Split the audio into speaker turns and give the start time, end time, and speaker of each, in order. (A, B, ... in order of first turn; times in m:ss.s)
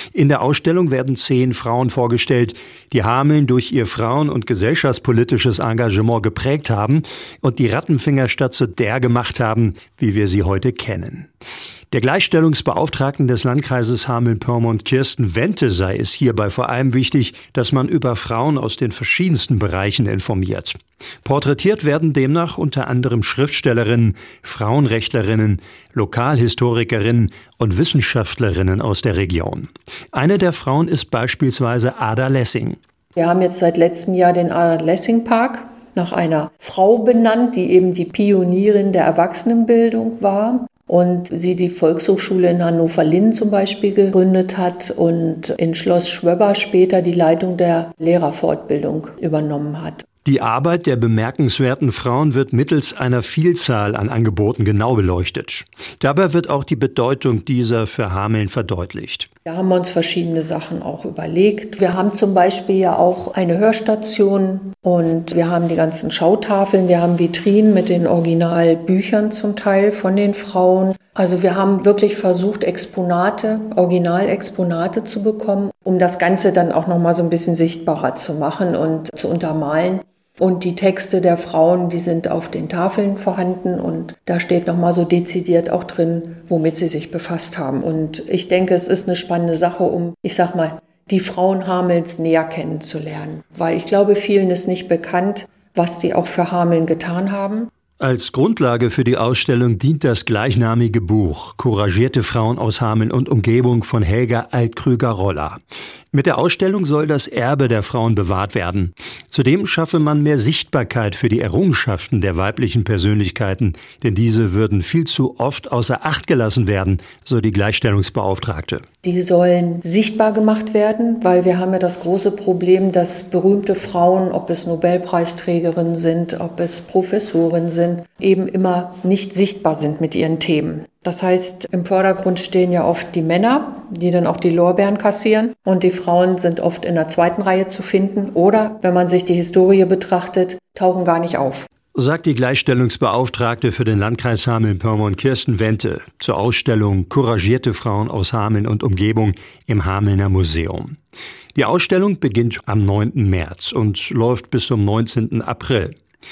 0:00.1-0:11.3 A
0:11.9-0:32.8 A
0:33.2-0:50.1 B
0:50.2-0:59.3 A
0:59.5-1:37.7 B
1:38.0-1:45.6 A
1:46.1-1:58.8 A
1:59.0-2:21.7 B
2:22.0-2:31.0 A
2:31.6-2:36.0 A